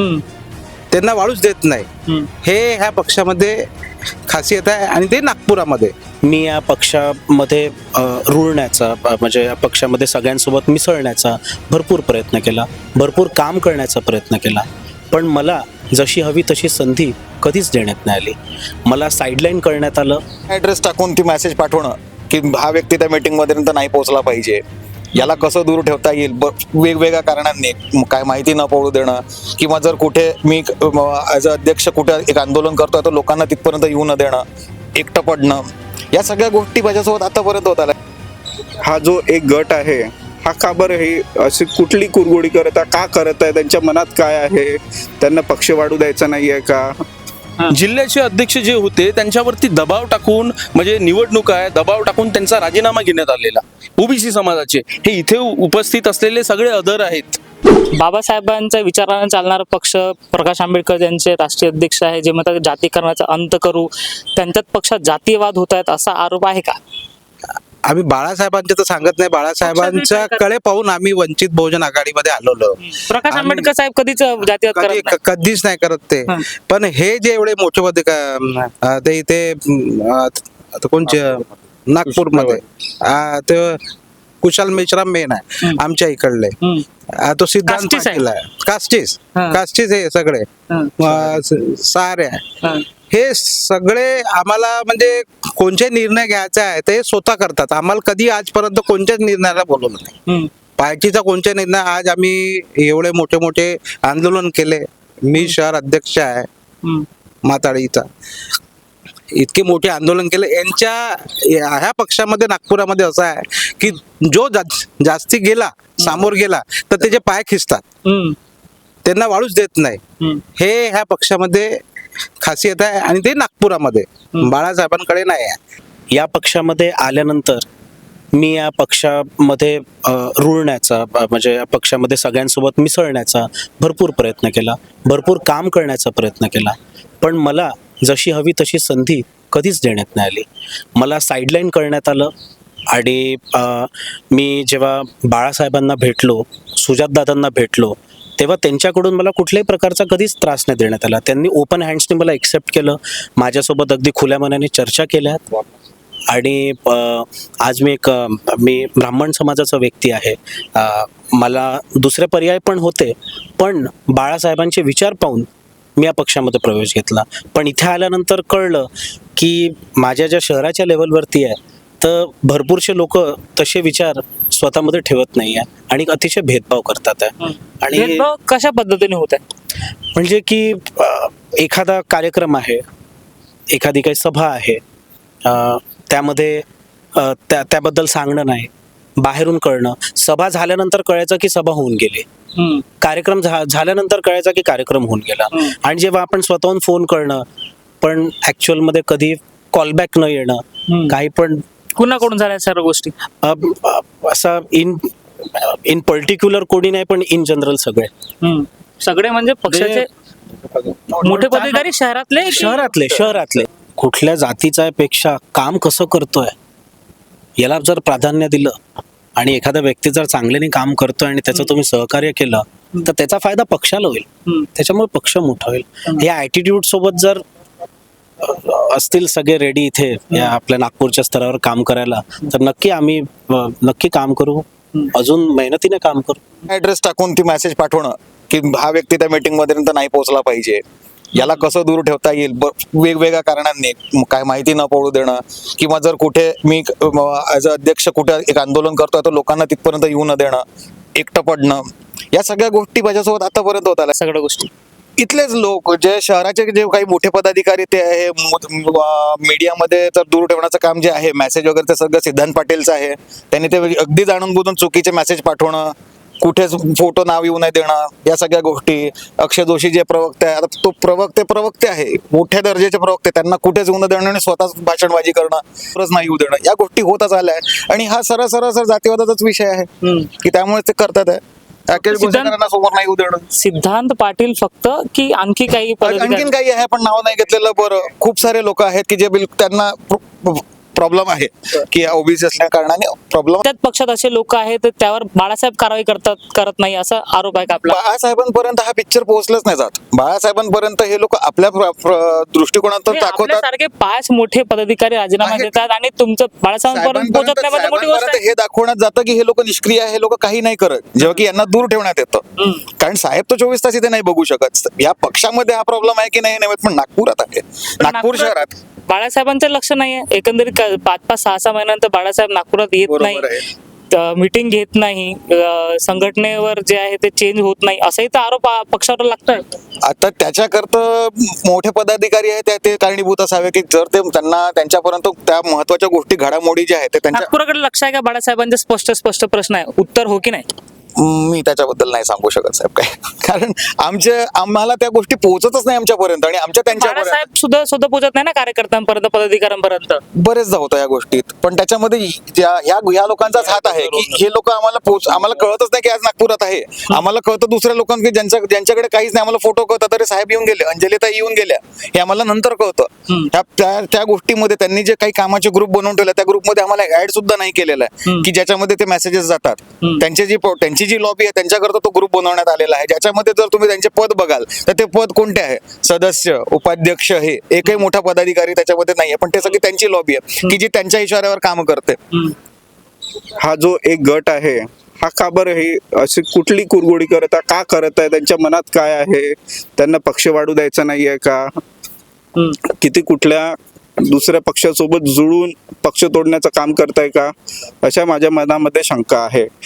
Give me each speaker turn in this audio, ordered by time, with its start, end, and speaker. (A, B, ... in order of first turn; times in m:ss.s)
0:00.9-0:03.7 A
0:04.3-0:05.9 A
0:06.2-0:20.2 B
0:20.5-0:24.6 C
0:25.2-0:34.4 C
0:35.0-0:37.9 C
0:38.8-0:47.0 D
0:47.7-0:57.4 E
0:57.9-1:06.8 F
1:07.8-1:13.7 A
1:09.6-1:10.4 F
1:12.8-1:15.2 F
1:14.7-1:23.8 A
1:24.4-1:26.6 A
1:27.1-1:30.5 A
1:27.7-1:28.2 F
1:29.4-1:29.6 F
1:30.7-1:31.0 F
1:31.0-1:32.5 A
1:33.1-1:40.2 A
1:40.8-1:46.5 A
1:47.4-1:48.1 A
1:49.3-1:57.8 A
1:58.1-1:58.4 F
1:59.0-2:00.0 A
2:00.6-2:01.8 A
2:02.4-2:05.6 A
2:06.1-2:07.7 B
2:08.3-2:22.3 B
2:22.9-2:35.6 B
2:36.3-2:58.3 B
2:57.9-2:59.4 F
3:00.1-3:02.8 B
3:03.7-3:04.8 B
3:05.4-3:06.6 B
3:07.2-3:12.3 B
3:13.0-3:17.4 B
3:18.0-3:21.6 B
3:22.0-3:23.1 F
3:23.4-3:28.1 B
3:28.4-3:30.1 F
3:29.7-3:30.0 E
3:31.2-3:32.8 F
3:31.4-3:31.8 E
3:32.5-3:36.6 B
3:37.6-3:38.8 B
3:39.4-3:47.4 B
3:48.4-3:56.4 B
3:56.7-4:00.8 C
4:01.4-4:10.6 C
4:11.2-4:14.1 C
4:14.2-4:14.7 F
4:15.2-4:43.5 C
4:42.0-4:42.5 F
4:43.6-4:46.5 F
4:46.0-4:53.6 C
4:53.6-4:58.0 F
4:57.9-5:03.7 C
5:03.1-5:08.4 F
5:05.4-5:05.8 C
5:06.9-5:18.7 C
5:18.0-5:23.5 F
5:23.0-5:23.6 C
5:24.1-5:29.7 F
5:30.0-5:37.5 C
5:37.4-5:40.7 F
5:41.2-5:47.4 C
5:46.9-5:50.2 F
5:50.4-6:22.2 C
5:53.6-5:54.4 E
6:23.6-6:31.8 D
6:32.8-6:37.5 D
6:38.0-6:39.7 D